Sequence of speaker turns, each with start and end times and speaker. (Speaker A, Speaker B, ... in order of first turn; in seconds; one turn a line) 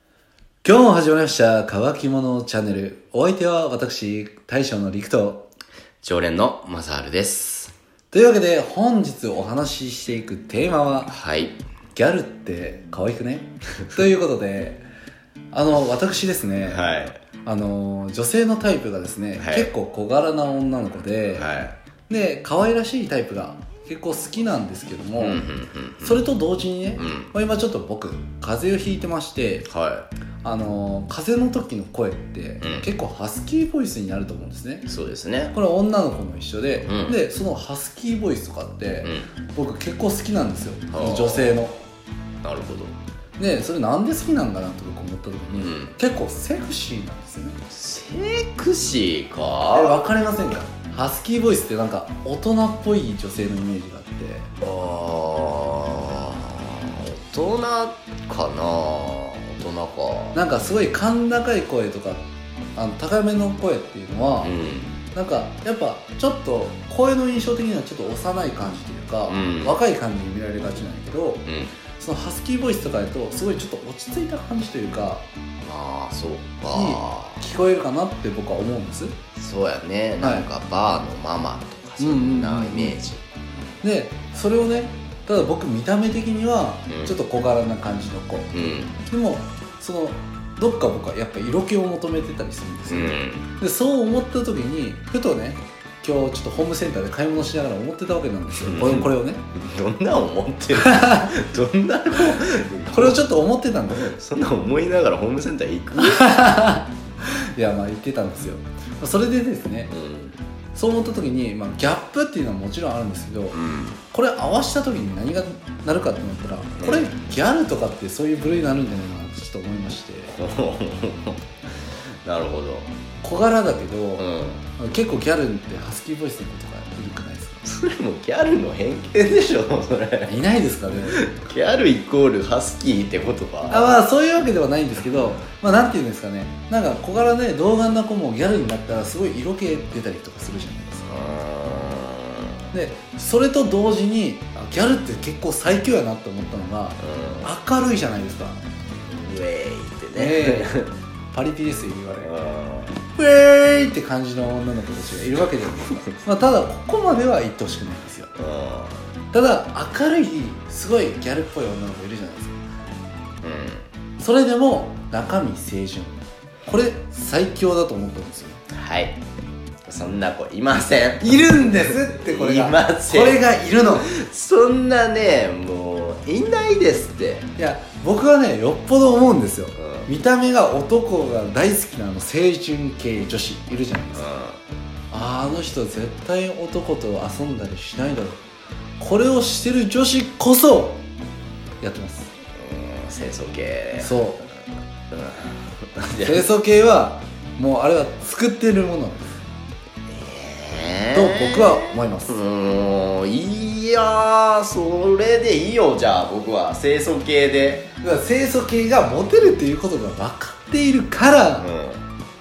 Speaker A: 0.6-5.5
Speaker B: 6.0-7.7
Speaker A: 8.1-11.1
Speaker B: 11.1-11.6
Speaker A: 11.9-14.8
Speaker A: 15.5-16.9
Speaker B: 16.6-17.2
Speaker A: 17.4-21.5
Speaker B: 19.4-19.7
Speaker B: 21.2-21.8
Speaker A: 22.1-25.5
Speaker B: 25.2-26.3
Speaker A: 26.0-29.7
Speaker B: 27.0-27.3
Speaker B: 29.7-30.1
Speaker A: 30.4-34.9
Speaker B: 32.6-32.9
Speaker B: 34.9-35.6
Speaker A: 35.5-41.8
Speaker B: 36.8-37.2
Speaker B: 39.0-39.3
Speaker B: 40.9-41.6
Speaker B: 42.4-43.0
Speaker A: 43.4-47.6
Speaker B: 45.5-46.0
Speaker B: 47.7-50.0
Speaker A: 49.7-54.5
Speaker B: 54.6-60.4
Speaker A: 60.3-62.2
Speaker A: 62.8-64.5
Speaker B: 64.4-65.0
Speaker A: 65.1-71.5
Speaker B: 69.3-69.8
Speaker B: 71.5-71.8
Speaker A: 72.0-75.2
Speaker B: 75.6-77.4
Speaker A: 76.7-79.2
Speaker B: 79.4-83.2
Speaker A: 80.2-80.5
Speaker A: 82.0-83.0
Speaker A: 83.8-99.4
Speaker B: 86.9-87.2
Speaker B: 88.5-89.0
Speaker B: 92.9-93.5
Speaker B: 98.6-103.2
Speaker A: 100.8-101.3
Speaker A: 102.9-104.2
Speaker B: 103.9-106.3
Speaker A: 106.0-109.9
Speaker B: 109.9-110.4
Speaker A: 110.7-113.6
Speaker B: 113.5-114.0
Speaker A: 114.1-120.4
Speaker B: 116.8-117.1
Speaker B: 120.3-121.5
Speaker B: 122.2-122.9
Speaker A: 123.2-127.6
Speaker B: 124.2-124.6
Speaker B: 127.6-130.4
Speaker A: 130.3-131.2
Speaker B: 131.1-134.1
Speaker A: 133.7-141.1
Speaker B: 141.1-142.6
Speaker A: 142.7-148.6
Speaker B: 147.0-147.5
Speaker B: 149.1-150.9
Speaker A: 150.2-152.3
Speaker B: 152.1-153.0
Speaker A: 153.1-158.3
Speaker B: 158.4-159.0
Speaker A: 159.3-162.6
Speaker B: 163.4-163.9
Speaker A: 164.2-168.6
Speaker B: 168.7-169.2
Speaker B: 169.9-177.5
Speaker A: 171.2-174.1
Speaker A: 177.6-184.3
Speaker B: 179.8-180.1
Speaker B: 184.2-184.6
Speaker A: 185.1-188.4
Speaker A: 189.0-191.0
Speaker A: 191.8-192.3
Speaker B: 192.6-194.2
Speaker A: 194.0-194.5
Speaker B: 195.1-196.4
Speaker A: 196.2-199.4
Speaker B: 200.1-207.9
Speaker A: 201.1-202.4
Speaker A: 208.0-211.7
Speaker B: 211.6-212.0